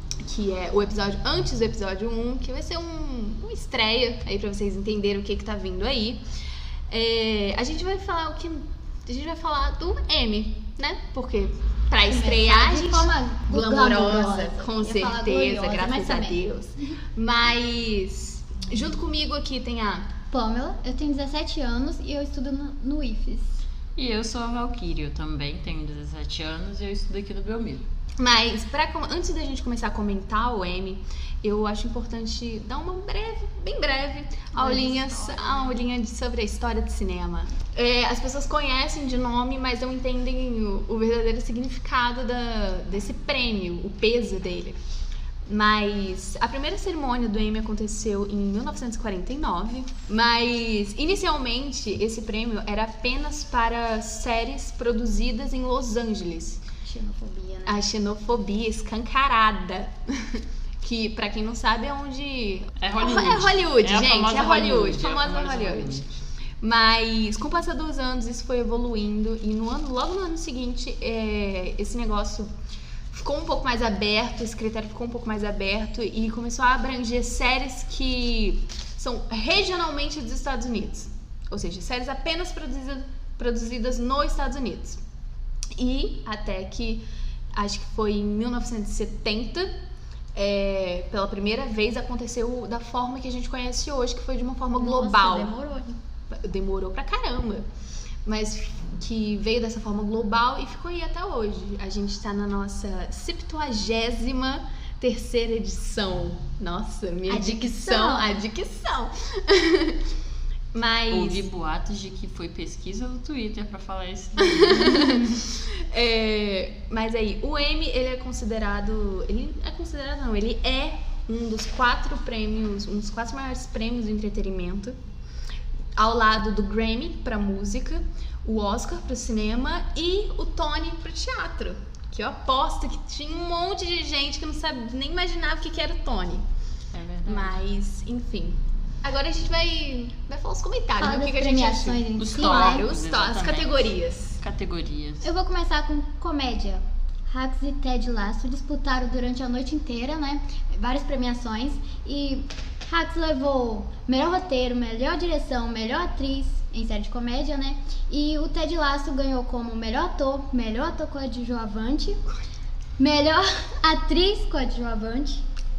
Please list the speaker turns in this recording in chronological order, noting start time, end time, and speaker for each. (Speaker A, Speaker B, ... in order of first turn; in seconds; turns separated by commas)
Speaker A: 0.2-6.2, Speaker A: 6.9-20.1, Speaker B: 12.1-16.4, Speaker B: 20.3-23.6, Speaker C: 23.9-27.8, Speaker A: 28.2-44.8, Speaker B: 34.5-35.7, Speaker A: 45.5-56.6, Speaker B: 56.8-57.8, Speaker A: 57.6-66.0, Speaker C: 62.8-66.1, Speaker A: 66.6-72.5, Speaker A: 73.1-85.0, Speaker A: 85.7-89.7, Speaker A: 90.3-95.5, Speaker B: 94.8-96.0, Speaker A: 96.3-97.7, Speaker A: 98.2-110.0, Speaker B: 107.3-108.3, Speaker A: 110.7-111.4, Speaker C: 111.1-115.3, Speaker A: 114.4-125.0, Speaker A: 126.0-136.4, Speaker C: 136.9-137.6, Speaker A: 137.2-144.4, Speaker B: 141.0-142.8, Speaker C: 142.2-145.3, Speaker B: 145.2-162.2, Speaker B: 163.0-165.4